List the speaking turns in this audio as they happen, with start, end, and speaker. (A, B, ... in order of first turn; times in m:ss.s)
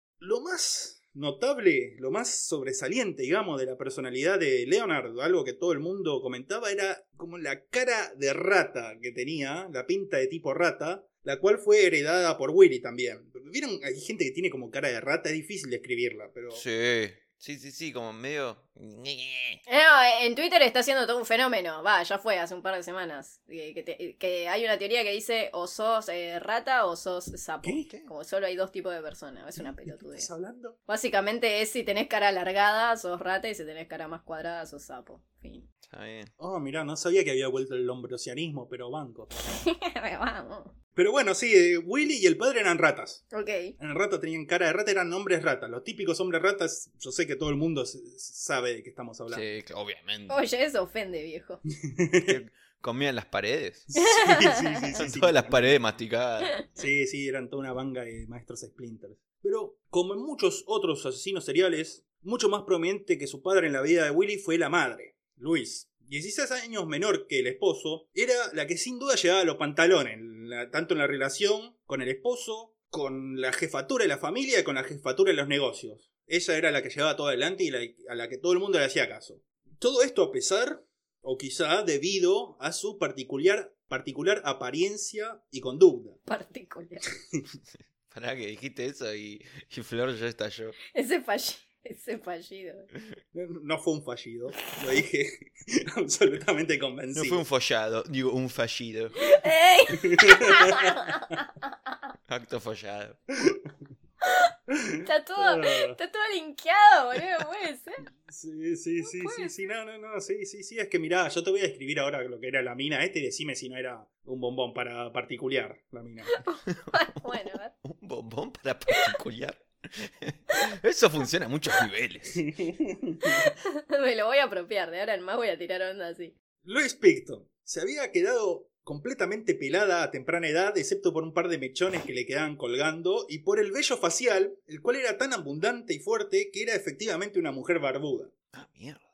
0:00.2-0:16.6 A
0:16.5-0:19.6 B
0:19.7-0:30.3 C
0:27.6-0:27.9 A
0:29.6-0:30.8 A
0:30.9-0:35.6 C
0:35.8-0:36.3 B
0:36.4-0:39.3 A
0:39.5-0:40.7 C
0:41.0-0:43.2 A
0:43.3-0:43.7 C
0:43.8-0:49.4 A
0:49.3-0:50.4 B
0:50.3-0:51.6 C
0:51.8-0:52.4 A
0:52.2-0:53.9 B
0:53.9-0:55.8 A
0:54.0-0:54.9 C
0:55.0-0:56.5 B
0:56.7-1:26.2 A
1:26.3-1:27.1 C
1:28.1-1:30.8 B
1:30.9-1:32.9 C
1:33.3-1:37.4 A
1:37.1-1:39.2 B
1:39.2-1:41.4 C
1:40.0-1:40.9 A
1:42.3-1:43.2 B
1:44.7-1:46.0 A
1:45.0-1:48.0 C
1:48.3-1:56.4 A
1:49.0-1:49.6 C
1:56.3-1:57.7 C
1:56.7-2:02.5 B
2:02.4-2:03.5 A
2:03.2-2:06.3 C
2:06.6-2:18.3 A
2:18.5-2:19.0 B